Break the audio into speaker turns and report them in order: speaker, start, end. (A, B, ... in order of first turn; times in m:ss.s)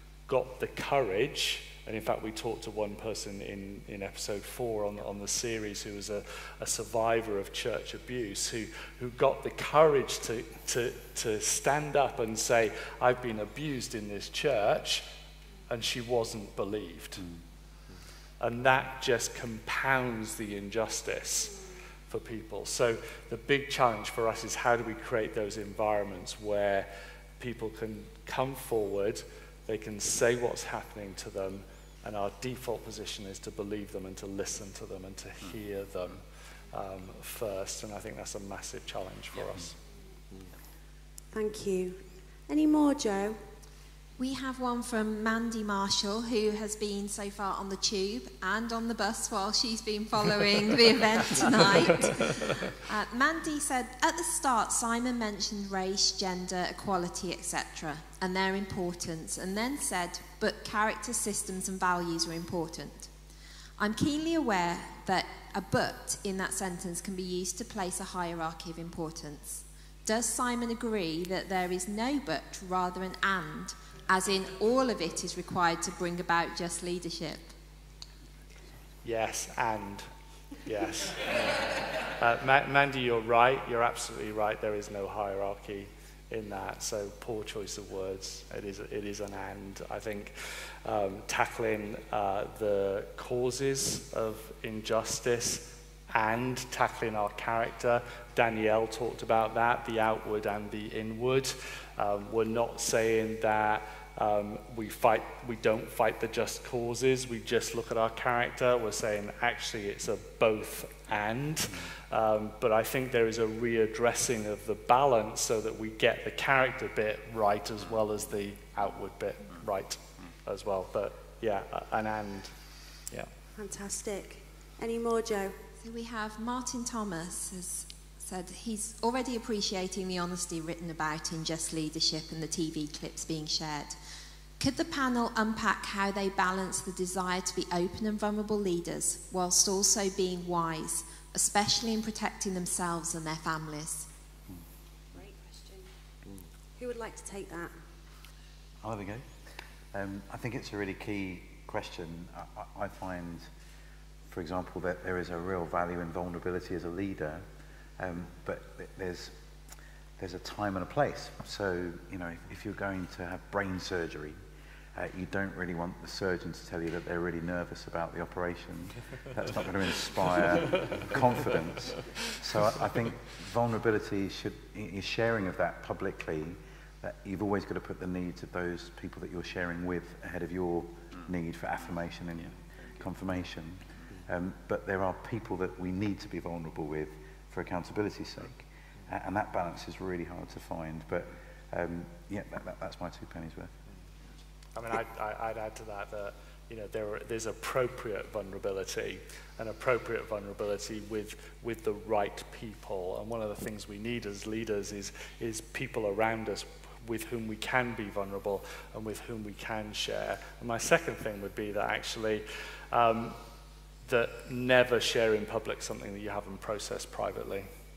0:00.3-0:15.1 A
0:15.7-0:17.2 A
0:18.4-0:21.6 A
0:22.1-0:39.8 A
0:41.3-0:43.4 B
0:44.2-1:03.1 C
1:03.8-1:17.5 C
1:19.0-1:20.1 A
1:20.6-2:02.6 A
2:03.6-2:05.6 B
2:05.8-2:14.0 C
2:14.6-2:24.1 C
2:25.1-2:25.9 B
2:26.8-2:27.7 B
2:28.8-2:29.3 D
2:29.9-2:33.5 D
2:34.3-2:37.4 D
2:38.0-2:39.4 D
2:40.2-2:44.4 D
2:44.9-3:13.7 D
2:50.7-2:50.9 A
3:14.7-3:33.4 A
3:34.0-3:37.7 A